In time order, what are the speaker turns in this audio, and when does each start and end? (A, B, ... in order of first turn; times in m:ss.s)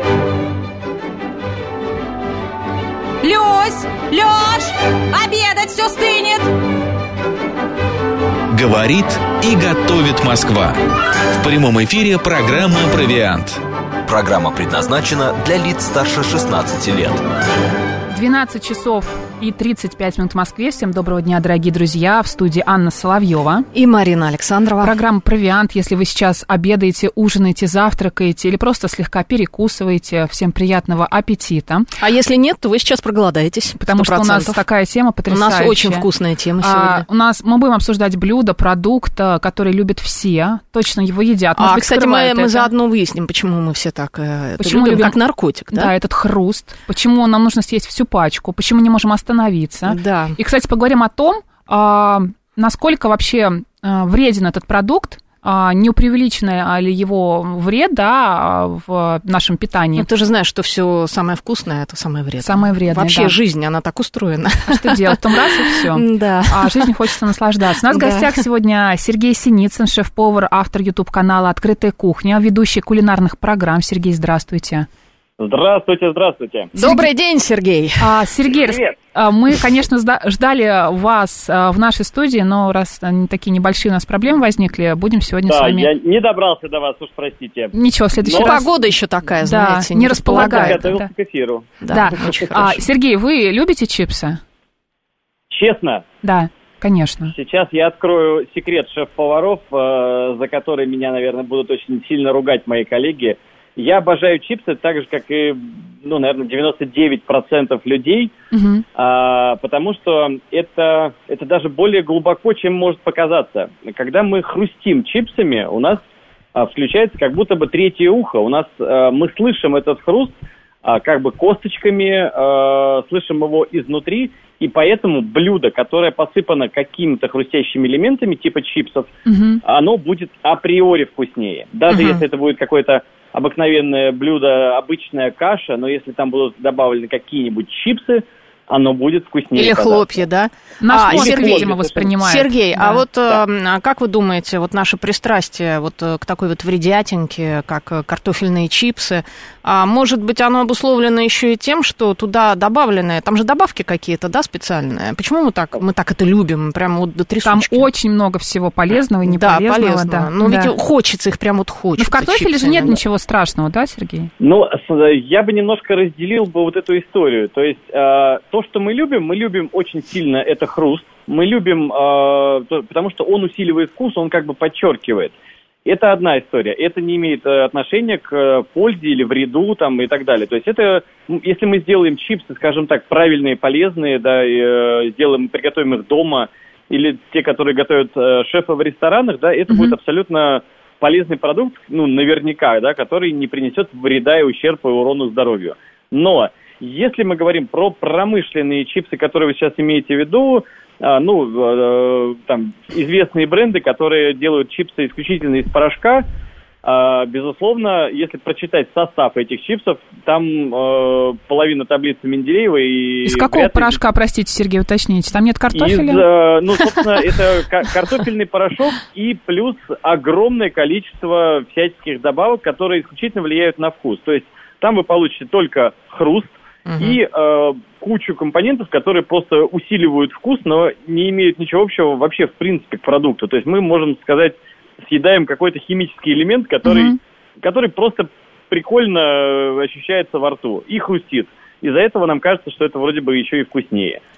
0:03.2-0:06.5 A
0:08.5-0:10.7 B
0:11.4-0:13.6 B
0:14.0-0:17.2 C
0:18.1-0:23.7 D
0:23.7-0:24.9 E
0:24.8-0:31.9 D
0:32.0-0:34.6 E
0:33.8-0:36.0 D
0:35.3-0:37.0 E
0:36.6-0:42.7 D
0:41.6-0:45.9 E
0:44.6-0:45.2 D
0:45.7-1:00.1 D
0:49.9-0:50.4 E
0:59.9-1:07.1 E
1:02.4-1:03.4 D
1:04.6-1:14.9 D
1:07.9-1:08.4 E
1:15.4-1:16.7 F
1:16.7-1:18.2 E
1:16.8-1:17.1 D
1:18.0-1:25.9 D
1:18.6-1:18.9 F
1:25.5-1:28.5 F
1:27.7-1:28.7 D
1:28.2-1:30.9 E
1:29.4-1:31.1 D
1:30.3-1:31.7 F
1:31.8-1:32.9 E
1:31.9-1:34.4 D
1:35.5-1:36.0 F
1:36.2-1:37.3 D
1:37.3-1:48.3 F
1:48.5-1:48.8 D
1:48.9-1:56.0 F
1:56.5-2:09.1 F
2:09.2-2:09.6 D
2:09.6-2:20.0 F
2:11.9-2:12.2 E
2:19.5-2:37.9 E
2:20.8-2:23.0 D
2:20.9-2:22.1 F
2:37.4-2:40.7 D
2:39.2-2:43.0 E
2:42.0-2:44.3 D
2:44.4-2:55.3 F
2:55.8-3:26.2 F
3:09.7-3:09.9 D
3:26.8-3:34.0 F
3:33.2-3:36.2 D
3:35.7-4:04.2 F
3:46.8-3:47.2 E
3:56.8-3:57.1 D